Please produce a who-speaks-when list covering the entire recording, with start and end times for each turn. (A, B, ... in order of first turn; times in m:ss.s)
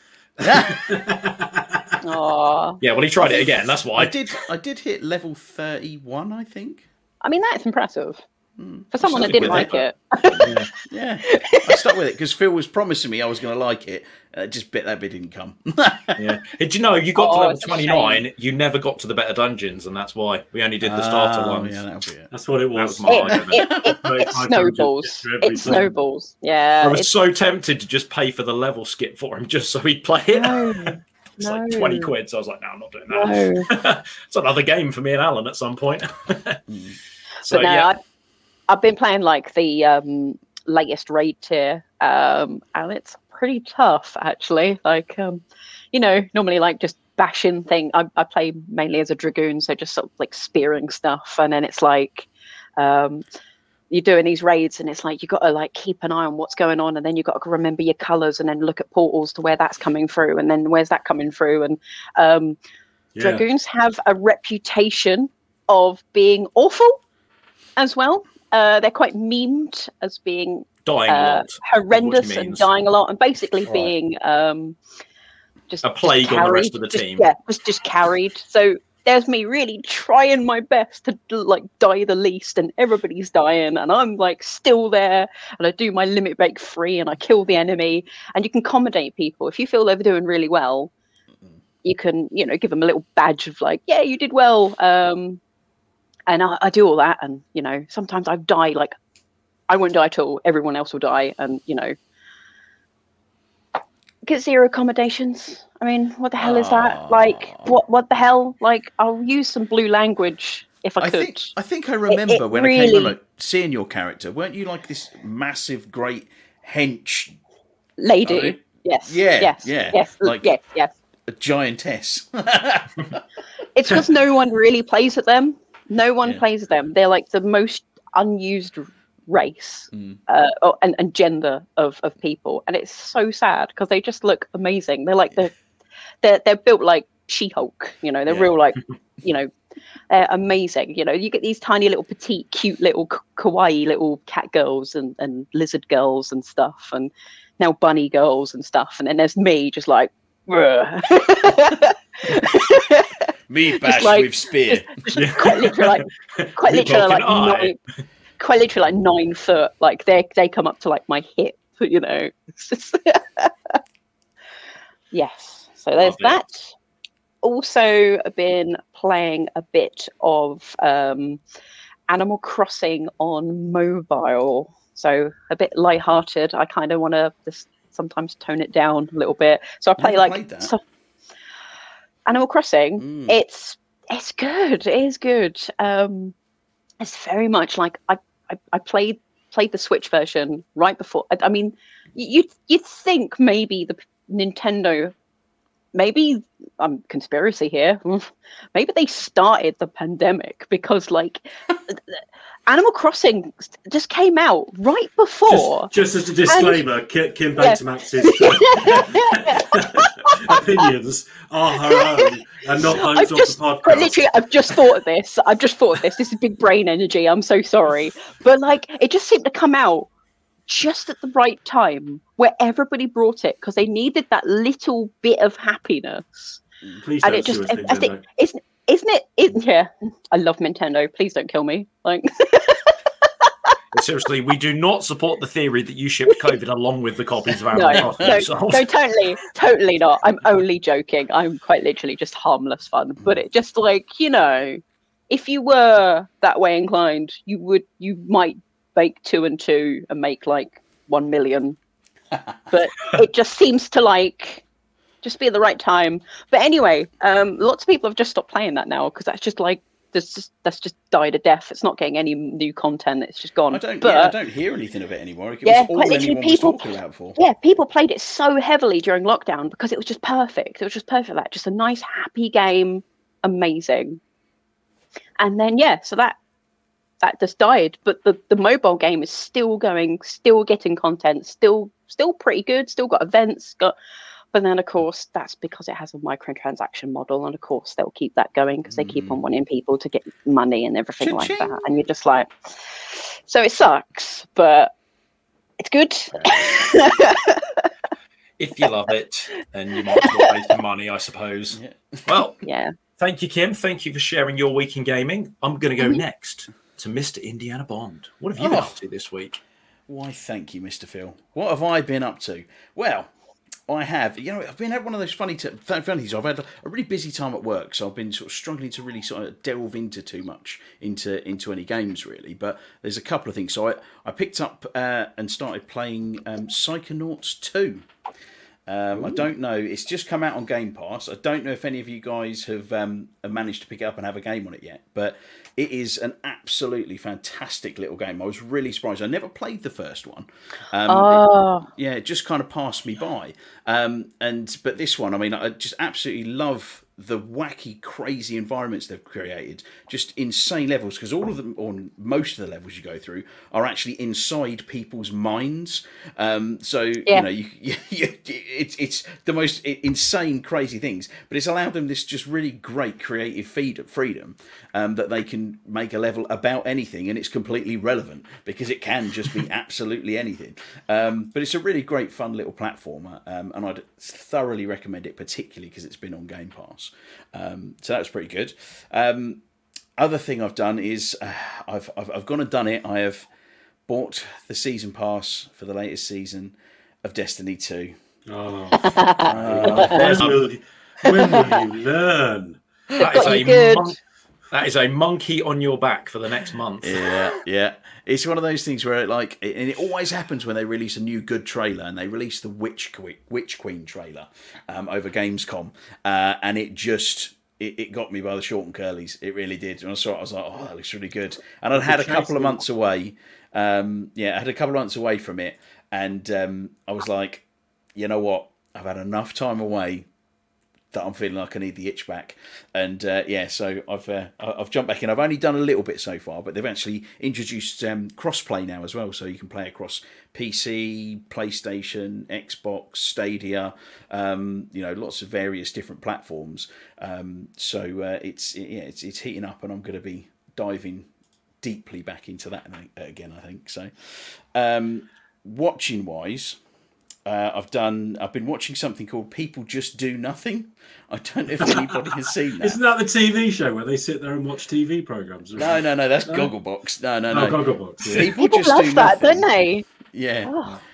0:00.4-0:00.8 A
0:00.4-0:01.8 B
0:02.0-0:02.8 C
0:02.8-0:04.2 D
0:03.2-0:06.8 A
0:07.2-0:08.2 C
0:08.6-0:16.4 A
0:08.9-0:10.5 C
0:09.2-0:09.8 D
0:10.4-0:10.7 D
0:11.2-0:11.9 C
0:16.2-0:21.8 D
0:17.2-0:18.2 C
0:20.8-0:22.3 A
0:22.3-0:25.9 B
0:22.7-0:23.6 D
0:23.1-0:27.1 C
0:23.3-0:24.0 A
0:26.8-0:36.6 D
0:30.3-0:32.1 C
0:33.1-0:33.7 C
0:36.7-0:37.0 A
0:37.4-0:37.9 D
0:37.5-0:38.0 C
0:38.7-0:53.2 C
0:53.9-1:02.6 C
1:03.1-1:03.4 B
1:03.2-1:07.0 C
1:07.8-1:14.8 C
1:10.8-1:12.7 D
1:15.7-1:30.9 C
1:15.8-1:17.3 D
1:31.8-1:35.4 C
1:36.3-1:38.9 C
1:39.7-1:41.9 C
1:44.2-1:51.6 C
1:46.4-1:47.7 A
1:51.0-1:57.4 A
1:52.1-1:53.1 C
1:58.0-2:00.9 C
1:58.3-1:58.5 A
1:59.1-2:00.6 A
2:01.3-2:03.2 A
2:03.7-2:15.5 C
2:09.9-2:10.2 A
2:16.2-2:19.5 C
2:20.1-2:33.2 C
2:33.5-2:35.1 A
2:33.8-2:37.8 C
2:35.6-2:37.8 D
2:38.4-2:43.8 C
2:45.1-2:46.7 C
2:46.0-2:46.4 D
2:47.4-2:51.4 C
2:52.1-3:00.8 C
3:00.0-3:00.7 A
3:02.3-3:06.3 C
3:03.0-3:03.4 A
3:07.0-3:15.1 C
3:15.9-3:25.9 C
3:25.5-3:34.8 B
3:26.5-3:26.8 C
3:27.6-3:30.6 C
3:31.9-3:40.1 C
3:40.7-3:46.6 C
3:47.0-3:48.2 B
3:47.2-3:53.5 C
3:53.9-3:58.9 D
3:57.7-4:11.8 C
3:58.0-3:58.4 A
4:12.7-4:14.6 C
4:15.2-4:24.3 C
4:23.7-4:27.4 A
4:25.6-4:34.2 C
4:35.4-4:36.4 C
4:37.2-4:43.9 C
4:44.5-4:52.5 C
4:48.9-4:49.4 A
4:51.2-4:51.9 A
4:53.1-4:54.9 C
4:55.8-4:57.9 C
4:56.3-4:56.6 D
4:58.6-5:02.6 D
5:00.2-5:00.4 C
5:01.7-5:02.3 A
5:02.6-5:02.9 C
5:03.2-5:09.6 D
5:08.6-5:08.9 A
5:10.1-5:13.3 A
5:13.9-5:28.0 A
5:28.9-6:19.6 A
5:29.1-5:29.4 B
5:41.1-5:41.9 C
6:20.2-6:23.5 A
6:24.1-6:28.1 A
6:28.5-6:32.8 B
6:29.0-6:30.0 C
6:29.4-6:30.5 A
6:30.0-6:30.6 D
6:33.2-6:34.1 C
6:33.2-6:34.2 D
6:34.7-6:37.3 D
6:37.0-6:57.6 A
6:51.9-6:52.8 B
6:58.1-7:00.3 A
7:01.1-7:21.3 A
7:21.8-7:26.8 A
7:27.4-7:33.0 A
7:31.8-7:36.7 B
7:35.8-7:39.7 A
7:37.5-7:38.5 B
7:38.6-7:40.0 C
7:40.3-7:40.7 A
7:40.6-7:40.9 C